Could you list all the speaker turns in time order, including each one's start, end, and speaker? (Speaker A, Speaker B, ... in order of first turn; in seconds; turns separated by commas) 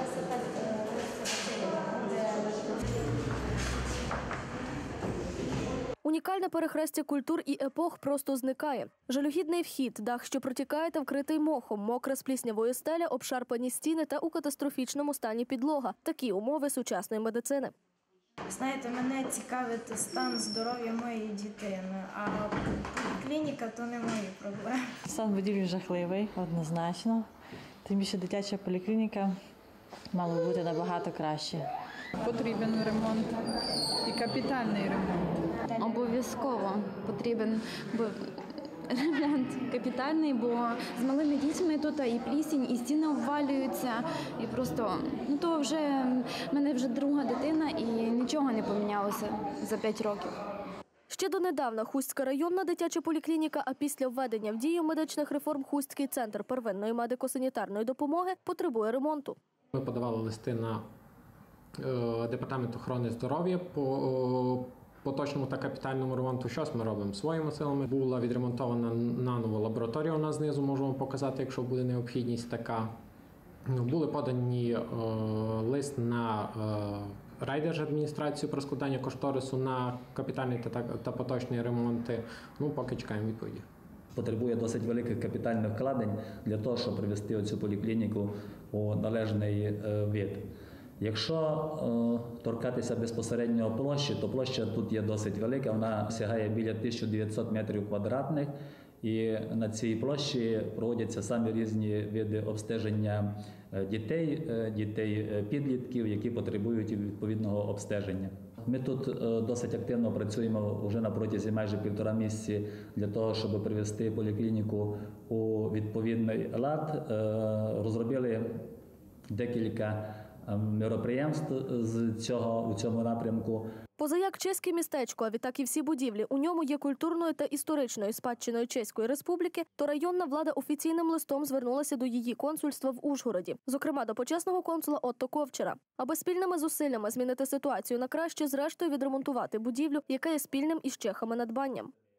Speaker A: 6.0-17.7, Speaker B: 18.5-24.9, Speaker C: 25.1-27.3, Speaker C: 27.8-29.4, Speaker C: 30.1-31.7, Speaker D: 32.3-33.4, Speaker D: 34.1-35.3, Speaker E: 35.8-38.2, Speaker E: 38.9-50.3, Speaker A: 51.1-59.4, Speaker F: 59.8-60.8, Speaker F: 61.8-72.9, Speaker F: 73.7-83.7, Speaker G: 84.1-90.5, Speaker G: 91.0-118.6, Speaker G: 119.3-123.7, Speaker A: 124.0-141.9